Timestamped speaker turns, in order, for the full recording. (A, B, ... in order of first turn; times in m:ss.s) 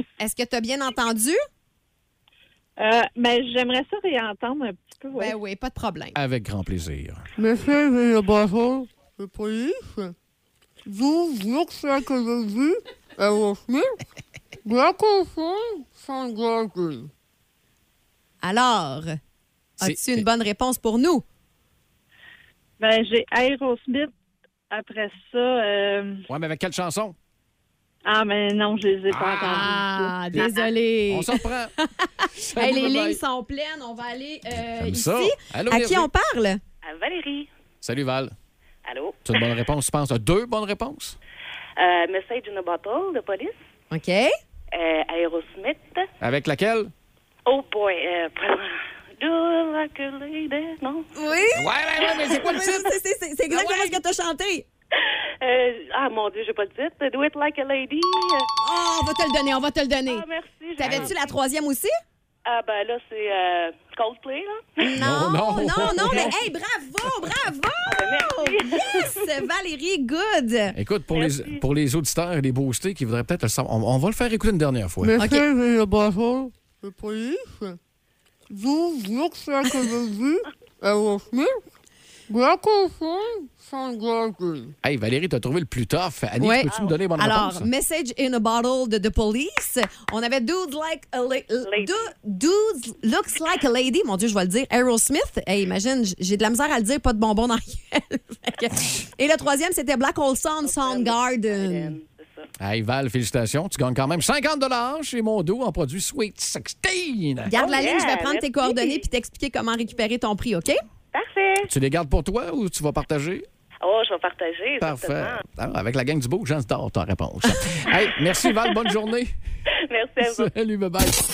0:00.2-0:01.4 A
0:02.8-0:05.4 B
0:05.2-0:06.2 A
0:06.2-0:07.2 C
0:07.4-0:10.1 D
0:10.9-0:14.0 D
0:14.6-0:17.1 D
0:18.4-0:19.2 A
0:19.8-0:21.2 A
0:19.8-0:20.3 C
0:22.8-0:24.1 B
0:24.7-0:26.2 B
0:26.3-0:27.2 C
0:28.1-0:30.5 B
0:29.1-0:29.7 C
0:29.4-0:36.6 A
0:31.1-0:31.7 C
0:32.4-0:33.2 C
0:34.8-0:36.1 C
0:36.8-0:37.5 E
0:37.8-0:38.3 C
0:38.8-0:39.4 E
0:39.2-0:41.2 C
0:41.8-0:43.6 E
0:43.9-0:44.3 A
0:44.7-0:46.1 E
0:46.2-0:46.9 C
0:47.5-0:51.1 E
0:51.2-0:54.7 A
0:51.5-0:52.9 C
0:53.5-0:54.0 C
0:55.0-0:58.5 E
0:58.6-1:00.3 A
1:00.1-1:01.2 E
1:00.8-1:01.9 A
1:00.8-1:01.1 C
1:02.5-1:04.8 E
1:04.8-1:10.8 A
1:05.0-1:06.4 C
1:05.8-1:06.2 E
1:07.9-1:09.1 E
1:10.7-1:15.2 C
1:11.1-1:11.6 E
1:15.0-1:17.8 D
1:15.2-1:15.4 A
1:18.5-1:21.6 D
1:22.3-1:24.7 D
1:24.8-1:27.7 C
1:26.4-1:42.0 A
1:26.7-1:27.0 E
1:31.6-1:32.1 E
1:40.6-1:42.5 E
1:42.6-1:47.6 C
1:47.5-1:50.8 A
1:47.6-1:49.0 E
1:51.1-1:51.7 E
1:51.7-1:53.5 C
1:53.8-1:55.4 E
1:54.8-1:59.4 C
1:59.9-2:00.5 E
2:00.2-2:01.2 C